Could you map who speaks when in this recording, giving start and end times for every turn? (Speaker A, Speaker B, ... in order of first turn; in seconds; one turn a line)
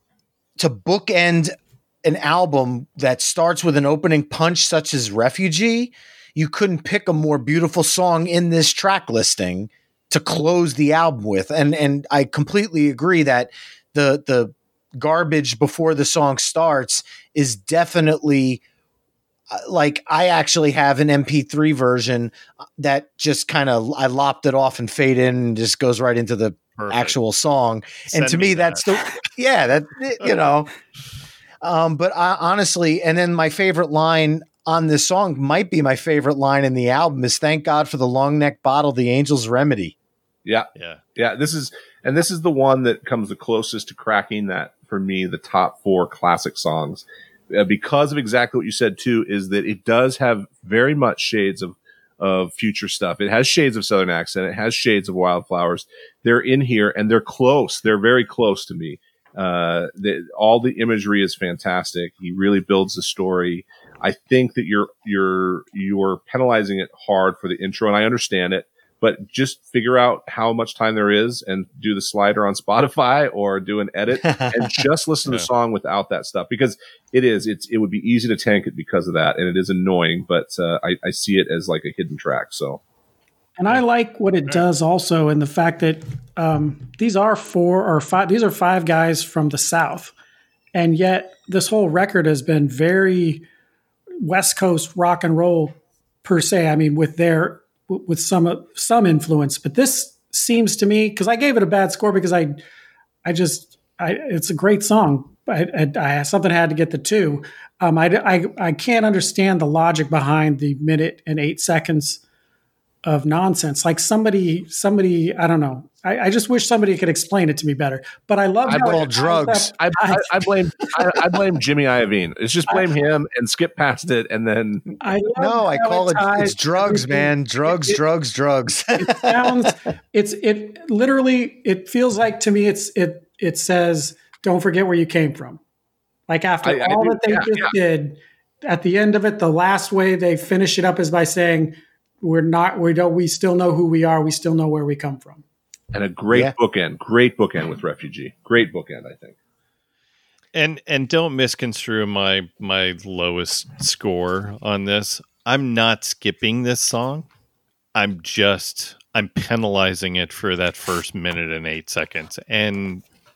Speaker A: 0.6-18.6
Speaker A: 19.5-30.7
Speaker B: 26.8-27.1
Speaker B: 28.1-28.9
Speaker A: 31.6-40.0
Speaker C: 40.4-82.8
Speaker B: 40.7-41.0
Speaker A: 74.2-74.6
Speaker D: 83.6-90.1
Speaker D: 90.7-93.5
Speaker D: 94.2-102.6
Speaker D: 103.2-112.2
Speaker D: 113.0-121.2
Speaker C: 118.7-124.9
Speaker A: 118.7-119.7
Speaker D: 125.0-128.0
Speaker A: 125.3-129.7
Speaker D: 128.9-135.6
Speaker D: 136.3-145.4
Speaker C: 136.6-137.7
Speaker C: 145.9-149.3
Speaker B: 150.5-157.3
Speaker B: 157.9-163.0